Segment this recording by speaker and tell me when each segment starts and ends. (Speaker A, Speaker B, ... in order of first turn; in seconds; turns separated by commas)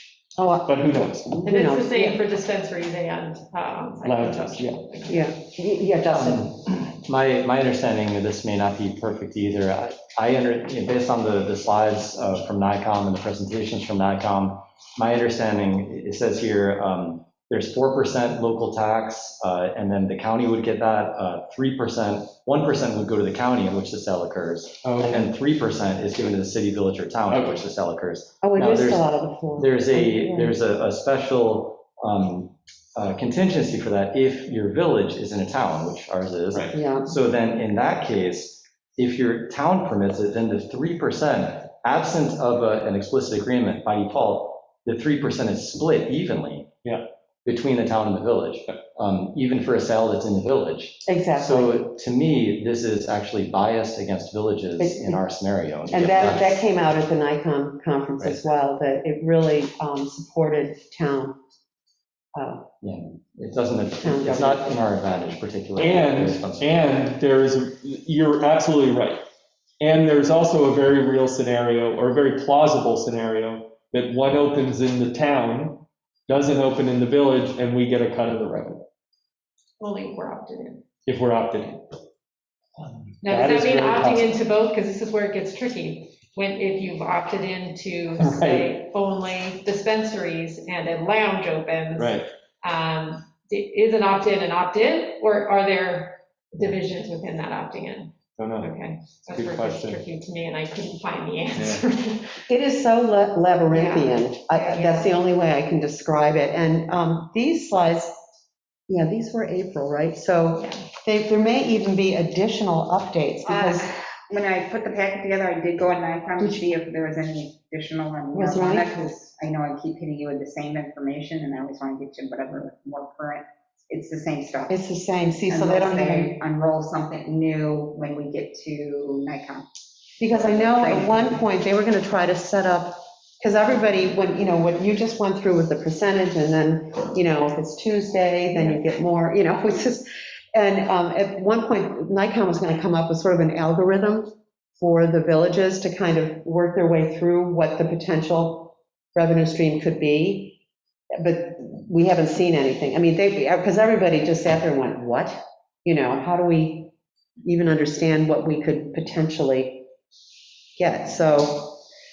Speaker A: 0.4-2.2, Speaker B: 0.7-1.3, Speaker C: 1.4-5.3, Speaker B: 4.0-4.8, Speaker A: 5.1-6.3, Speaker D: 6.1-46.7, Speaker B: 24.8-25.3, Speaker B: 27.3-27.6, Speaker A: 28.4-30.6, Speaker B: 36.5-36.8, Speaker A: 36.7-37.1, Speaker D: 47.5-56.6, Speaker A: 51.1-51.8, Speaker A: 54.8-55.2, Speaker A: 55.9-61.4, Speaker A: 62.4-62.7, Speaker D: 62.8-66.7, Speaker A: 64.0-64.6, Speaker B: 65.8-69.2, Speaker B: 69.8-78.8, Speaker C: 79.8-80.8, Speaker B: 81.1-81.8, Speaker B: 82.8-84.4, Speaker C: 83.2-102.4, Speaker B: 88.2-88.7, Speaker B: 92.0-92.3, Speaker B: 98.4-98.7, Speaker B: 99.3-100.0, Speaker B: 101.6-101.8, Speaker A: 102.5-108.2, Speaker C: 103.7-105.2, Speaker A: 108.9-113.9, Speaker C: 110.6-110.8, Speaker E: 113.4-124.8, Speaker A: 118.3-118.9, Speaker A: 124.7-126.3, Speaker E: 125.5-129.7, Speaker A: 130.2-150.6, Speaker E: 130.3-131.2, Speaker A: 151.2-156.9, Speaker A: 157.4-159.9, Speaker A: 160.8-161.8